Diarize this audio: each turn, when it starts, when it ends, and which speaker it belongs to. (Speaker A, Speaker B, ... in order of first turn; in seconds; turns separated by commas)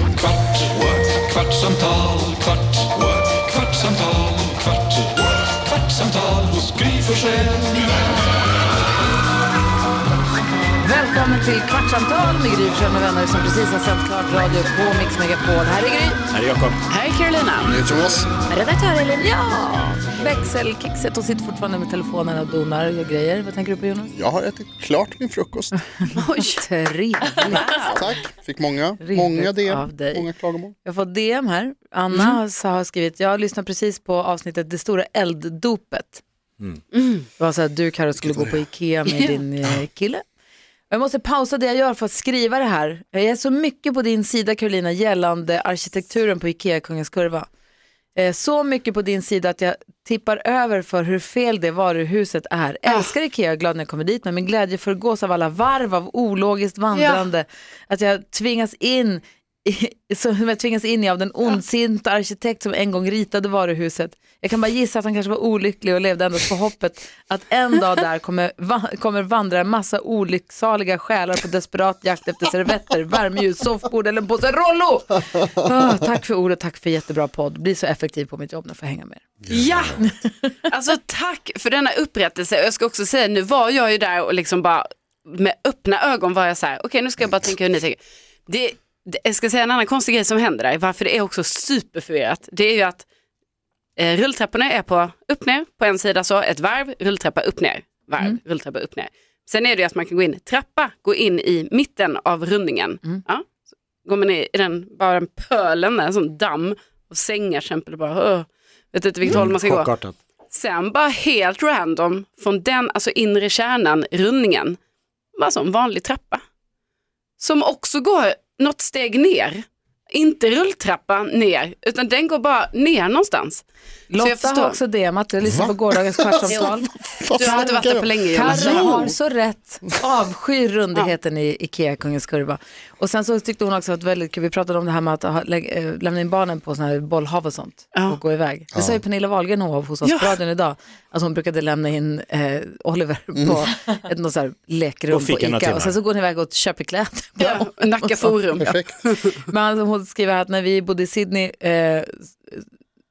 Speaker A: 0.2-7.7, Speaker B: 10.8-16.2, Speaker C: 16.3-16.8, Speaker D: 16.9-17.8, Speaker E: 17.6-18.3, Speaker B: 18.5-24.1, Speaker E: 24.1-25.8, Speaker B: 26.0-28.0, Speaker D: 26.1-26.6, Speaker D: 27.4-27.9, Speaker E: 27.5-30.7, Speaker B: 29.0-30.3, Speaker B: 30.8-36.2, Speaker D: 36.9-37.2, Speaker B: 37.4-40.2, Speaker E: 38.2-38.5, Speaker B: 40.9-47.5, Speaker B: 48.1-80.5, Speaker D: 56.9-57.3, Speaker E: 79.4-80.0, Speaker D: 80.7-93.0, Speaker D: 94.0-103.4, Speaker D: 104.0-109.9, Speaker C: 109.2-110.2, Speaker D: 110.5-114.8, Speaker D: 115.3-116.4, Speaker D: 117.4-123.6, Speaker B: 124.1-148.8, Speaker D: 124.2-124.8, Speaker E: 125.4-129.1, Speaker D: 127.4-129.1, Speaker D: 137.9-138.2, Speaker E: 138.7-139.0, Speaker D: 140.0-140.3, Speaker E: 143.3-143.6, Speaker C: 145.1-145.9, Speaker D: 147.4-149.4, Speaker E: 148.6-148.9, Speaker B: 149.4-152.6